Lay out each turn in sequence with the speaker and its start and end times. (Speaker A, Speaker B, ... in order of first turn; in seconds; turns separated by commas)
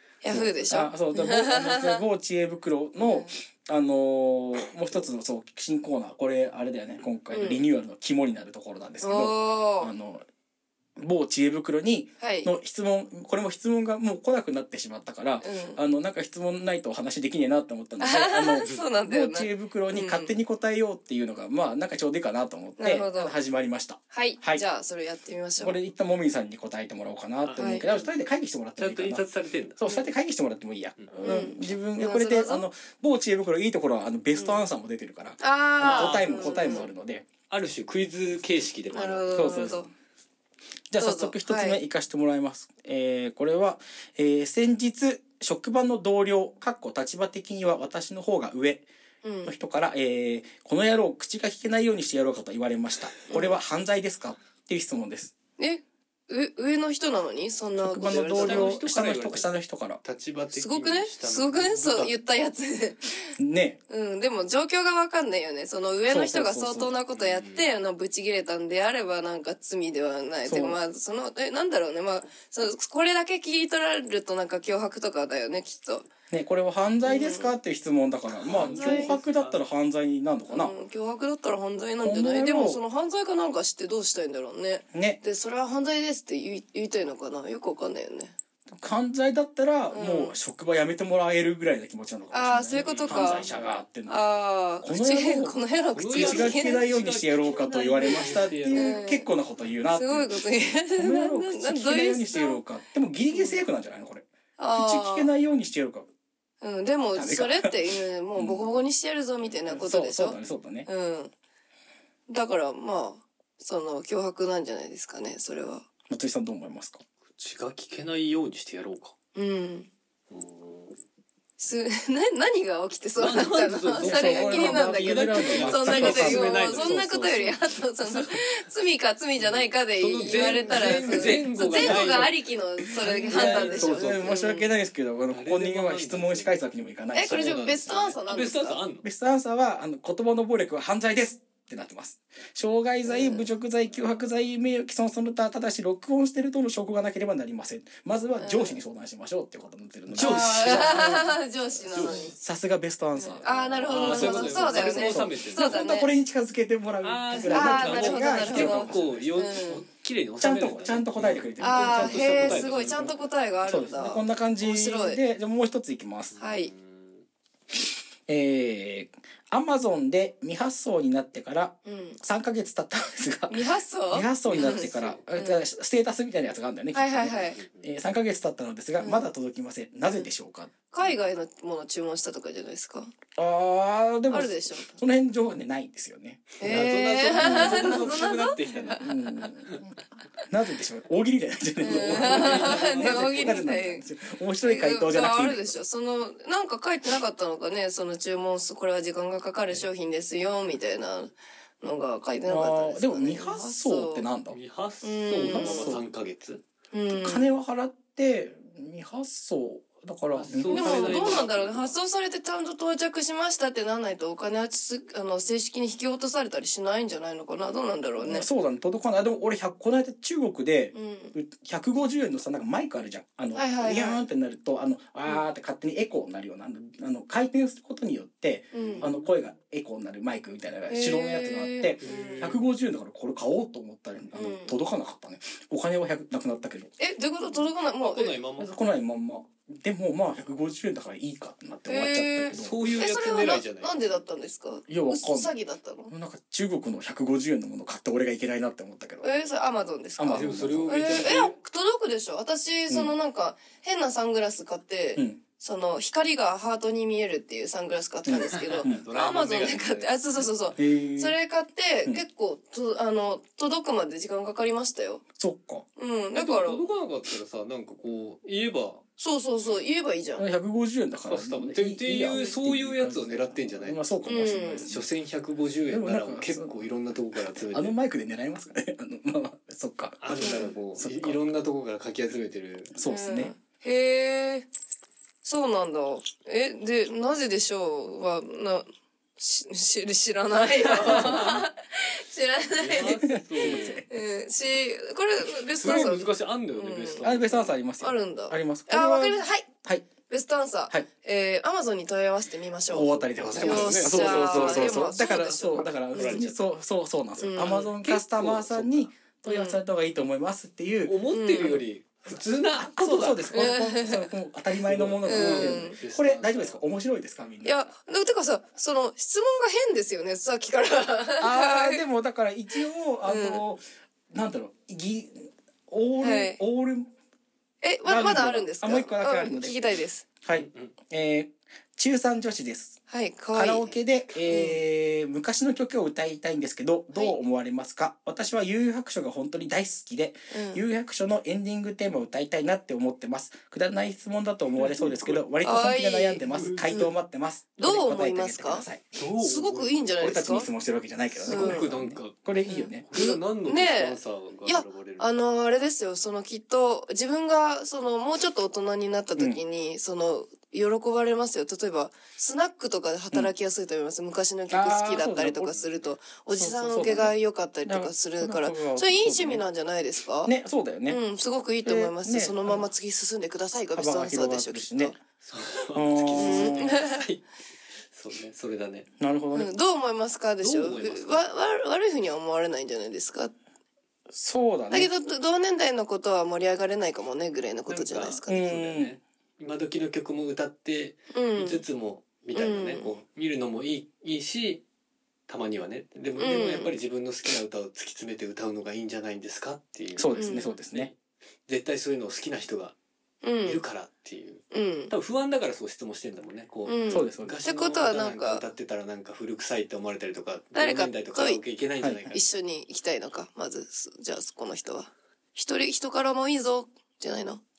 Speaker A: 0.2-2.0, Speaker B: 0.3-10.2, Speaker C: 0.3-0.8, Speaker A: 3.0-3.3, Speaker A: 7.3-7.6, Speaker A: 9.0-9.9, Speaker B: 11.0-24.6, Speaker A: 12.2-12.5, Speaker A: 15.4-15.8, Speaker A: 18.0-20.4, Speaker A: 22.8-23.4, Speaker A: 24.1-25.8, Speaker B: 25.6-29.2, Speaker C: 27.4-28.1, Speaker A: 27.6-27.9, Speaker C: 28.8-29.8, Speaker B: 29.8-37.3, Speaker A: 31.2-32.6, Speaker A: 34.3-34.6, Speaker A: 35.4-36.9, Speaker C: 35.8-36.9, Speaker C: 37.5-39.8, Speaker A: 38.9-39.9, Speaker B: 39.3-39.9, Speaker B: 40.9-48.9, Speaker A: 41.0-41.8, Speaker A: 49.2-49.5, Speaker B: 49.4-55.3, Speaker A: 53.3-53.6, Speaker A: 55.6-58.7, Speaker B: 57.8-60.0, Speaker C: 58.1-62.1, Speaker A: 60.5-63.3, Speaker B: 63.4-63.8, Speaker A: 63.9-76.1, Speaker B: 66.1-66.9, Speaker C: 67.1-67.7, Speaker B: 70.4-70.8, Speaker B: 76.3-80.7, Speaker A: 77.0-77.5, Speaker A: 78.4-79.2, Speaker C: 78.4-79.6, Speaker A: 80.5-88.3, Speaker B: 82.0-82.8, Speaker B: 84.9-85.2, Speaker B: 88.7-94.2, Speaker A: 89.9-90.3, Speaker A: 92.3-93.5, Speaker C: 92.8-93.8, Speaker A: 94.1-96.8, Speaker B: 94.8-95.6, Speaker C: 95.9-98.9, Speaker B: 96.1-100.3, Speaker A: 98.0-99.3, Speaker A: 99.9-102.6, Speaker B: 100.9-106.1, Speaker A: 103.3-103.7, Speaker A: 104.6-105.3, Speaker A: 106.6-111.3, Speaker B: 107.1-108.8, Speaker B: 109.7-110.9, Speaker A: 112.3-115.8, Speaker B: 116.1-117.0, Speaker C: 117.3-119.1, Speaker A: 119.3-119.9, Speaker C: 120.3-121.0, Speaker A: 121.6-134.7, Speaker C: 123.2-127.1, Speaker B: 124.0-127.6, Speaker C: 129.4-132.4, Speaker B: 130.3-132.3, Speaker C: 132.9-134.3, Speaker B: 133.0-137.9, Speaker C: 135.3-136.6, Speaker A: 137.1-138.8, Speaker C: 137.2-139.1, Speaker B: 139.0-151.3, Speaker A: 143.0-143.5, Speaker A: 148.4-148.8, Speaker C: 150.1-151.3, Speaker A: 150.2-152.3, Speaker B: 151.9-159.5, Speaker C: 151.9-152.3, Speaker A: 153.2-156.1, Speaker C: 153.9-155.8, Speaker C: 157.0-163.1, Speaker A: 157.4-159.8, Speaker B: 160.4-166.3, Speaker A: 161.6-165.2, Speaker C: 166.3-167.2, Speaker A: 166.4-166.7, Speaker B: 168.3-180.7, Speaker A: 171.8-172.2, Speaker A: 173.5-175.7, Speaker C: 174.4-175.2, Speaker A: 176.9-177.6, Speaker C: 177.6-177.9, Speaker A: 179.0-179.3, Speaker A: 180.9-183.1, Speaker B: 183.4-188.1, Speaker A: 184.3-185.0, Speaker C: 186.6-189.0, Speaker A: 186.6-189.4, Speaker B: 189.0-190.0, Speaker B: 190.5-195.8, Speaker A: 191.8-194.0, Speaker C: 191.8-193.6, Speaker A: 194.6-204.3, Speaker B: 202.4-204.6, Speaker C: 204.5-206.6, Speaker A: 205.0-205.9, Speaker B: 205.3-206.0, Speaker A: 206.9-207.5, Speaker B: 207.1-211.4, Speaker C: 210.3-211.9, Speaker A: 210.7-218.5, Speaker B: 218.2-236.9, Speaker A: 220.9-221.3, Speaker A: 223.5-224.2, Speaker A: 228.7-229.1, Speaker C: 228.8-229.2, Speaker A: 230.9-232.5, Speaker C: 232.0-232.7, Speaker A: 234.3-234.8, Speaker A: 237.0-238.3, Speaker C: 238.0-238.8, Speaker B: 238.6-242.8, Speaker A: 241.9-246.1, Speaker C: 242.5-244.2, Speaker B: 244.9-245.6, Speaker B: 246.1-249.3, Speaker A: 249.2-265.2, Speaker B: 250.2-251.3, Speaker C: 250.3-251.6, Speaker B: 252.9-253.1, Speaker B: 255.2-255.4, Speaker B: 258.2-259.1, Speaker C: 258.5-260.6, Speaker B: 260.8-261.4, Speaker B: 265.4-265.9, Speaker A: 265.9-266.9, Speaker C: 266.3-269.0, Speaker A: 269.2-270.5, Speaker B: 270.4-275.0, Speaker C: 271.3-277.9, Speaker A: 274.2-274.9, Speaker B: 275.9-276.8, Speaker B: 277.5-281.4, Speaker C: 280.2-283.0, Speaker A: 280.4-280.7, Speaker B: 282.9-283.5, Speaker A: 283.0-284.7, Speaker A: 285.4-297.2, Speaker B: 291.0-291.6, Speaker C: 291.0-291.5, Speaker C: 292.8-294.0, Speaker B: 293.2-294.1, Speaker C: 295.7-297.8, Speaker B: 297.2-300.1, Speaker A: 298.0-299.7, Speaker A: 300.3-306.5, Speaker B: 302.9-317.9, Speaker C: 303.2-306.5, Speaker A: 307.4-307.9, Speaker C: 308.0-309.1, Speaker A: 309.4-309.8, Speaker C: 311.0-313.7, Speaker A: 311.3-311.8, Speaker A: 313.5-314.3, Speaker C: 314.8-316.8, Speaker A: 315.2-316.0, Speaker A: 317.6-322.0, Speaker B: 321.4-327.1, Speaker A: 322.8-323.6, Speaker A: 326.2-326.6, Speaker A: 327.8-330.2, Speaker B: 328.0-329.8, Speaker B: 330.4-333.0, Speaker C: 330.5-330.9, Speaker A: 333.1-333.9, Speaker B: 333.5-349.0, Speaker A: 334.4-334.8, Speaker A: 340.5-340.8, Speaker C: 344.8-345.4, Speaker A: 345.6-347.1, Speaker C: 346.4-347.0, Speaker A: 347.8-350.7, Speaker C: 349.1-350.1, Speaker B: 350.2-353.1, Speaker C: 351.4-355.3, Speaker A: 351.4-351.9, Speaker A: 352.6-370.5, Speaker B: 359.4-359.6, Speaker B: 364.7-365.8, Speaker B: 366.5-369.6, Speaker B: 370.4-371.2, Speaker A: 371.1-375.2, Speaker B: 371.8-372.9, Speaker B: 373.9-375.2, Speaker C: 375.4-377.4, Speaker B: 375.9-377.0, Speaker A: 376.4-377.1, Speaker C: 378.1-379.1, Speaker B: 379.2-379.7, Speaker A: 379.5-383.5, Speaker C: 380.6-381.5, Speaker B: 384.3-385.1, Speaker A: 384.9-388.5, Speaker C: 387.9-394.8, Speaker B: 388.5-389.2, Speaker A: 391.3-391.8, Speaker A: 392.5-393.1, Speaker C: 395.5-401.1, Speaker A: 396.4-396.9, Speaker B: 400.1-401.1, Speaker A: 400.4-400.7, Speaker C: 401.7-402.9, Speaker A: 403.4-403.8, Speaker C: 403.6-412.4, Speaker A: 404.7-405.1, Speaker A: 406.9-408.6, Speaker B: 407.1-407.6, Speaker A: 410.7-411.6, Speaker B: 412.0-412.2, Speaker A: 412.3-417.6